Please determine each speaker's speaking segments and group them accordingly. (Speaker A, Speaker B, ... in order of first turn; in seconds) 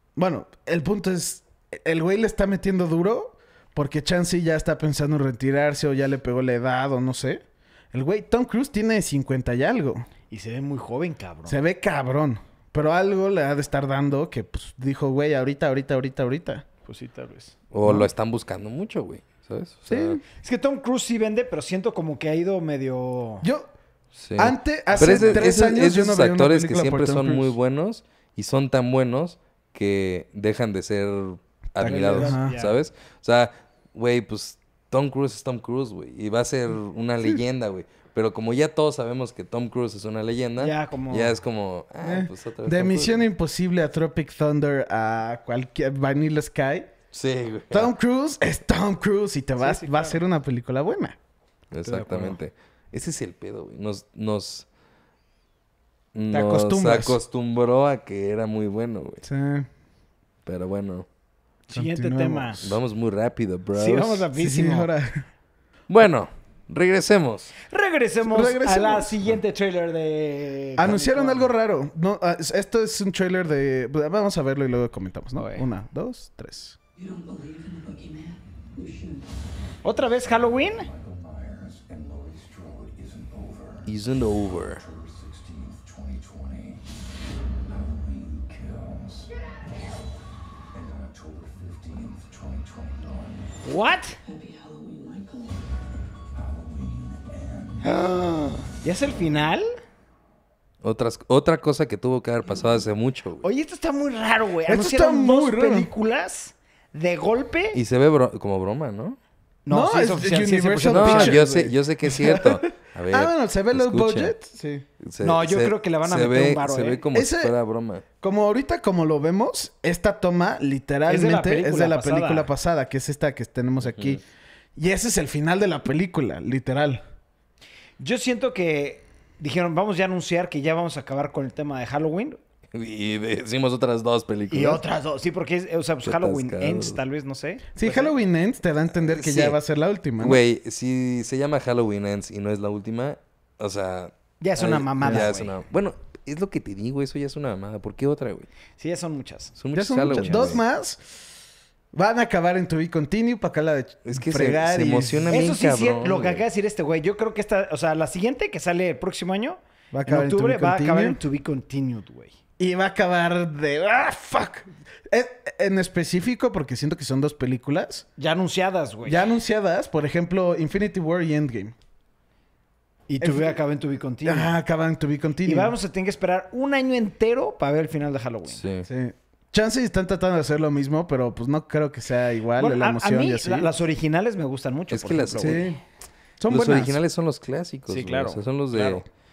Speaker A: 0.2-10.1, 11.5-16.6, 17.8-18.1, 19.9-20.2, 23.4-23.7, 24.4-27.5, 31.8-32.5, 42.0-46.9, 47.7-51.2, 56.3-57.2, 59.2-59.7, 61.7-62.8, 64.3-65.3, 68.2-69.2, 70.8-76.8, 104.7-105.9, 109.7-114.9, 117.1-117.5, 118.2-124.2, 124.8-127.0, 137.8-140.4, 145.0-145.3, 149.7-151.2, 151.9-155.3, 159.9-161.2, 162.6-168.1, 169.1-171.8, 173.2-173.6, 174.2-175.8, 178.8-183.7, 185.4-185.8, 186.4-187.0
Speaker B: 10.3-11.6, 16.9-17.6, 20.4-23.5, 24.9-25.5, 31.8-32.7, 40.6-41.4, 49.6-50.2, 51.8-52.4, 61.7-62.6, 63.8-64.9, 67.7-71.5, 75.4-75.7, 79.8-80.9, 93.6-94.2, 97.8-99.7, 103.4-107.8, 109.7-111.4, 115.2-117.0, 121.1-122.5, 128.0-132.4, 134.5-138.1, 144.4-145.5, 148.8-149.6, 150.1-150.6, 155.3-162.4, 168.2-169.2, 173.1-174.5, 175.4-178.6, 182.6-185.7, 187.9-189.0
Speaker C: 17.7-20.2, 24.1-43.3, 47.1-47.9, 51.7-54.7, 56.1-59.2, 60.5-61.1, 62.6-64.3, 65.9-67.5, 83.9-84.8, 100.8-103.5, 107.7-109.2, 110.9-114.3, 115.0-118.0, 123.8-124.2, 132.7-134.8, 136.0-137.0, 139.0-139.6, 140.2-148.5, 149.6-150.6, 154.1-156.4, 178.5-178.9, 184.9-185.7, 186.5-189.1
Speaker D: 77.0-79.2, 94.2-95.6
Speaker E: 79.9-84.0, 84.8-86.8, 87.7-89.3, 90.7-93.5, 96.3-97.9